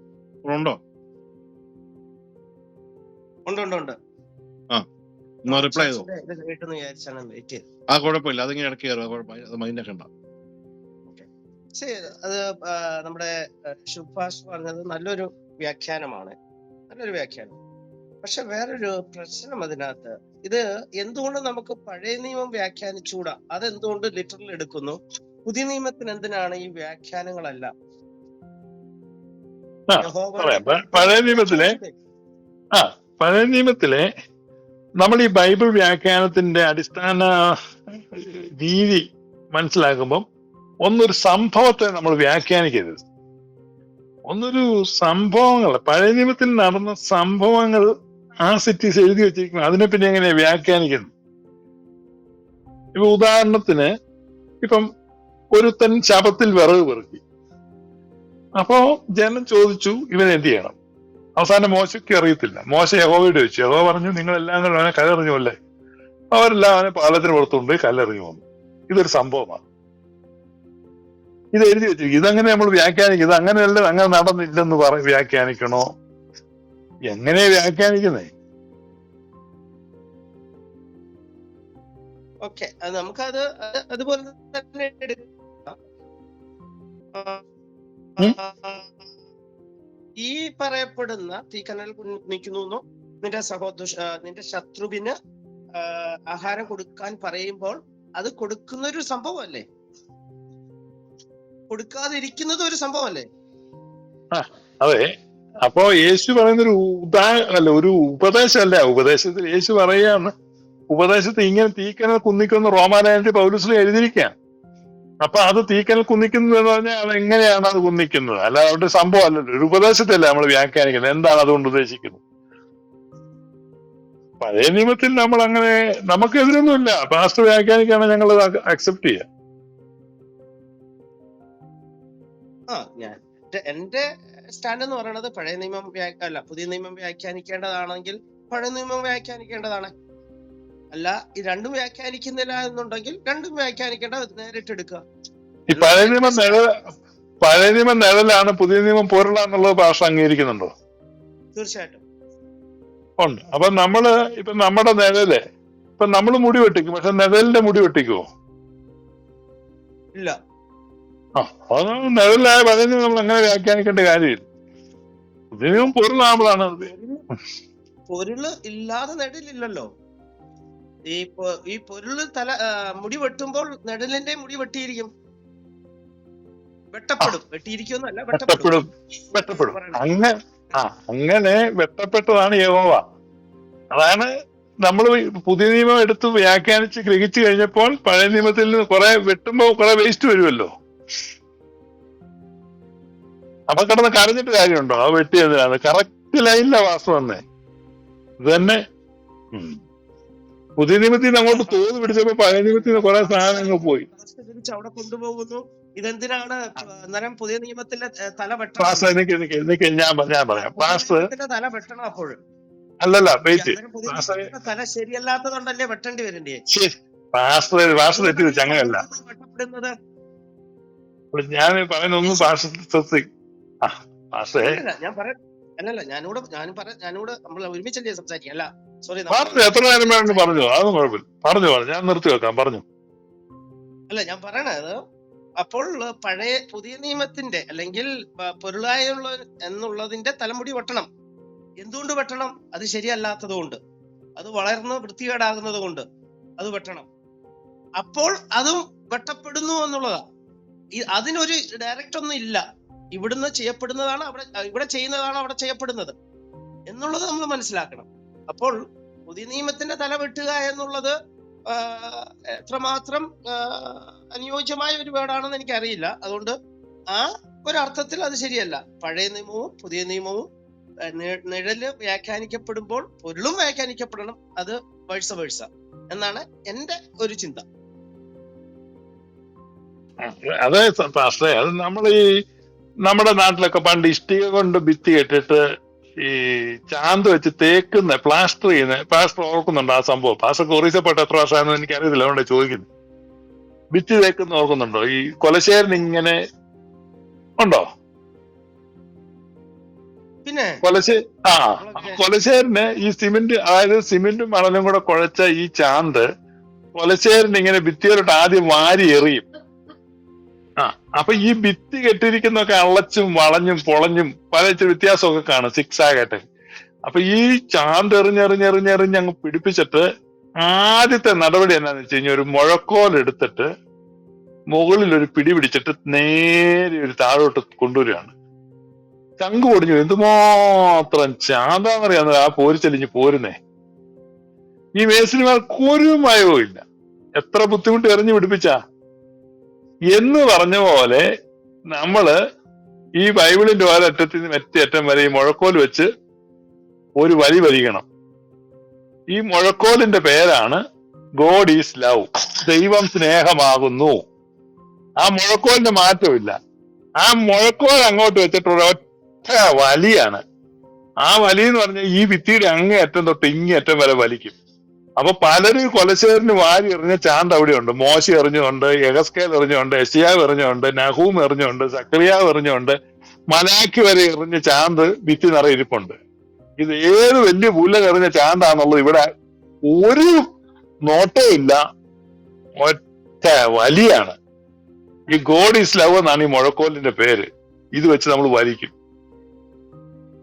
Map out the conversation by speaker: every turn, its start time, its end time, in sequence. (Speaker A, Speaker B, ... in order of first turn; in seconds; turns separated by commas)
Speaker A: 0.5-0.8, Speaker B: 3.5-3.9, Speaker A: 5.5-6.1, Speaker B: 5.5-7.6, Speaker A: 7.9-10.1, Speaker B: 11.1-13.3, Speaker B: 13.9-16.3, Speaker B: 16.9-17.6, Speaker B: 18.2-27.7, Speaker C: 29.9-31.7, Speaker B: 30.0-32.0, Speaker C: 32.7-34.0, Speaker C: 35.0-37.3, Speaker C: 38.1-39.0, Speaker C: 39.5-40.2, Speaker C: 40.8-43.0, Speaker C: 44.3-47.9, Speaker C: 48.5-51.1, Speaker C: 53.0-53.9, Speaker C: 55.5-57.2, Speaker C: 58.6-60.7, Speaker C: 61.4-65.5, Speaker C: 66.3-69.6, Speaker C: 71.5-75.8, Speaker C: 77.1-78.3, Speaker B: 82.4-85.8, Speaker B: 87.1-87.4, Speaker B: 88.2-88.9, Speaker B: 90.2-95.1, Speaker B: 95.8-99.6, Speaker B: 101.7-103.2, Speaker C: 104.3-105.0, Speaker C: 105.6-110.3, Speaker C: 110.9-114.3, Speaker C: 115.2-122.2, Speaker C: 124.4-129.2, Speaker B: 132.7-139.9, Speaker B: 140.9-145.0, Speaker C: 145.7-146.7, Speaker B: 145.7-146.6, Speaker C: 147.4-150.7, Speaker B: 151.6-152.0, Speaker C: 153.2-155.4, Speaker C: 156.0-158.2, Speaker C: 161.4-164.4, Speaker C: 165.6-166.9, Speaker B: 165.7-166.0, Speaker B: 166.8-167.2, Speaker B: 168.1-169.9, Speaker B: 171.1-175.1, Speaker B: 176.9-178.8, Speaker C: 178.3-183.0, Speaker B: 179.3-180.2, Speaker C: 183.9-184.3, Speaker C: 184.8-190.7, Speaker C: 193.7-197.4, Speaker C: 198.4-198.8, Speaker C: 200.8-204.1, Speaker B: 201.5-209.1, Speaker C: 208.8-211.2, Speaker B: 210.5-212.3, Speaker C: 213.0-214.5, Speaker B: 213.5-216.6, Speaker C: 216.7-219.0, Speaker B: 218.1-219.9, Speaker C: 221.3-223.2, Speaker B: 222.2-222.6, Speaker C: 223.8-224.8, Speaker B: 224.6-230.5, Speaker C: 229.3-232.8, Speaker B: 234.1-235.0, Speaker B: 235.6-241.1, Speaker B: 241.8-243.8, Speaker B: 244.4-246.0, Speaker B: 246.6-247.1, Speaker B: 248.0-250.2, Speaker B: 251.0-252.6, Speaker B: 253.2-256.1, Speaker B: 256.9-258.8, Speaker B: 259.3-261.1, Speaker B: 261.7-266.6, Speaker B: 267.1-270.4, Speaker B: 271.1-277.6, Speaker C: 280.2-282.2, Speaker C: 283.1-285.6, Speaker C: 286.9-292.9, Speaker C: 293.9-296.4, Speaker C: 297.6-297.9, Speaker B: 300.4-300.7, Speaker C: 300.8-306.2, Speaker B: 301.8-302.2, Speaker C: 307.0-309.4, Speaker C: 310.8-316.4, Speaker C: 317.1-320.0, Speaker C: 320.6-323.7, Speaker C: 324.7-328.3, Speaker C: 329.4-333.5, Speaker C: 335.0-336.8, Speaker C: 337.4-338.8, Speaker C: 340.1-341.2, Speaker C: 341.9-342.3, Speaker C: 343.2-346.1, Speaker C: 347.2-348.1, Speaker C: 349.3-350.8, Speaker C: 351.4-354.2, Speaker C: 355.2-356.5, Speaker C: 357.2-360.4, Speaker C: 361.2-364.5, Speaker C: 365.2-372.9, Speaker C: 373.5-376.1, Speaker C: 376.8-379.2, Speaker C: 379.9-380.3, Speaker C: 381.1-381.8, Speaker C: 382.8-384.4, Speaker C: 385.3-387.4, Speaker C: 388.0-388.9